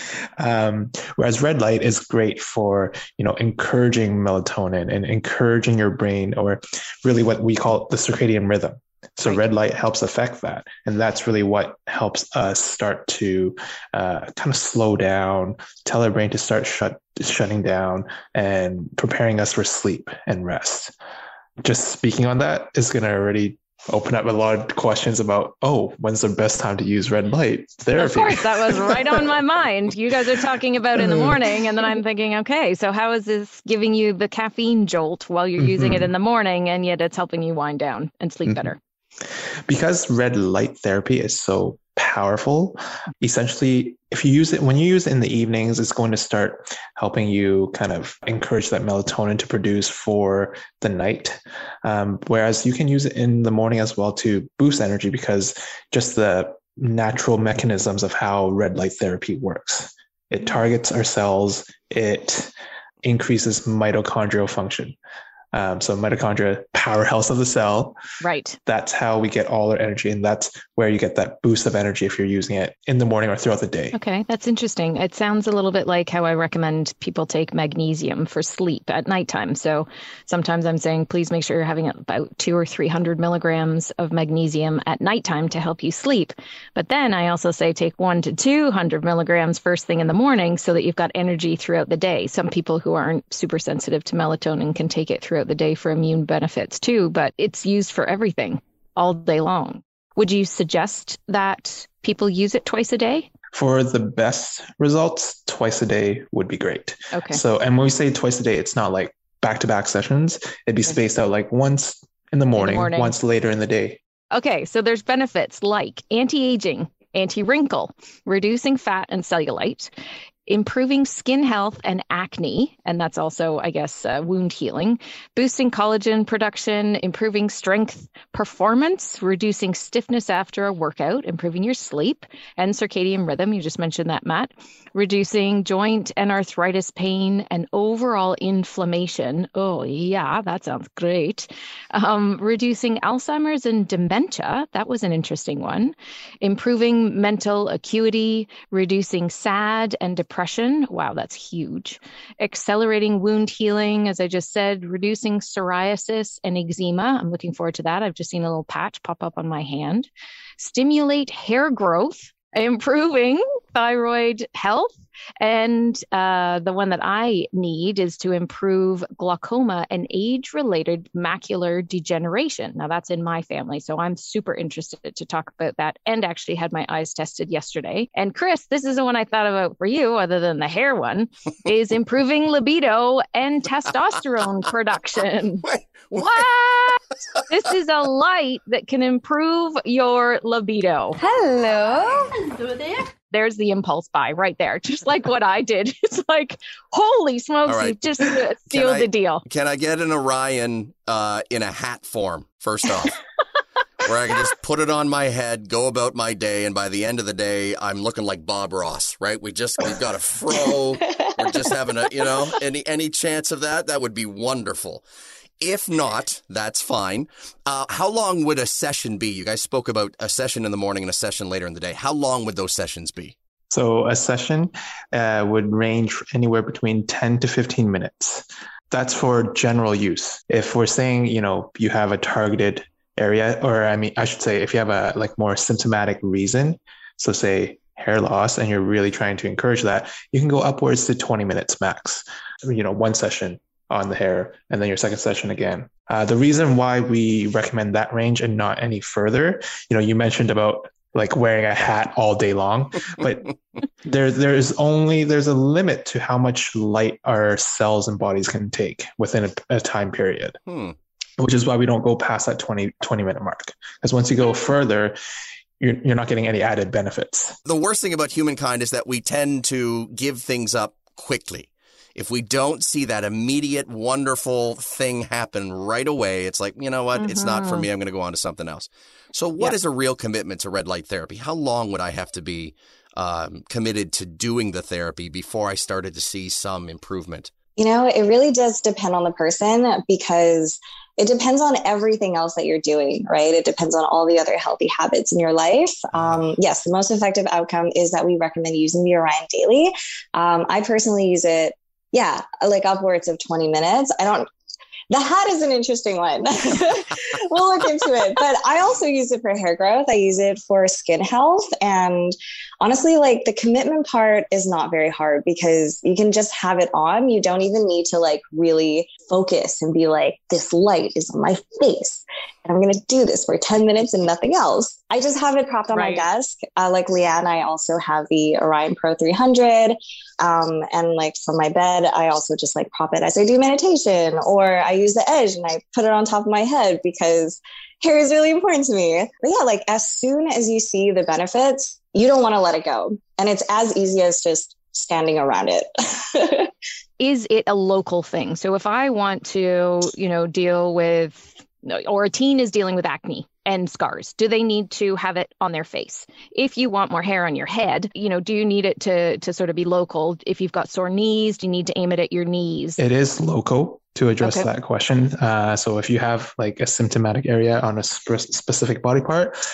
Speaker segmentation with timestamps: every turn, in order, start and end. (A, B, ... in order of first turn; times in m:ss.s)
0:00.4-0:20.9 A
0:21.6-0:29.2 A
0:28.0-0:38.8 B
0:31.0-0:31.4 A
0:35.6-0:36.1 A
0:39.7-1:05.0 A
1:05.5-1:08.0 A
1:08.2-1:08.6 B
1:08.6-1:14.0 A
1:13.9-1:43.3 B
1:43.5-1:54.0 A
1:47.1-1:47.4 B
1:52.6-1:53.2 B
1:54.3-1:59.9 B
2:00.4-3:11.2 B
3:05.6-3:06.4 C
3:11.3-3:11.8 D
3:13.3-3:19.4 B
3:17.7-3:23.2 C
3:24.0-3:35.0 C
3:35.6-3:43.4 C
3:43.7-4:20.6 A
4:20.7-4:20.9 C
4:21.4-4:25.2 A
4:25.8-4:27.6 A
4:27.6-4:47.5 C
4:37.2-4:37.9 B
4:47.8-5:04.5 D
5:05.1-5:46.7 D
5:25.9-5:26.2 B
5:47.2-6:03.0 B
6:03.0-6:09.6 A
6:04.4-6:04.7 B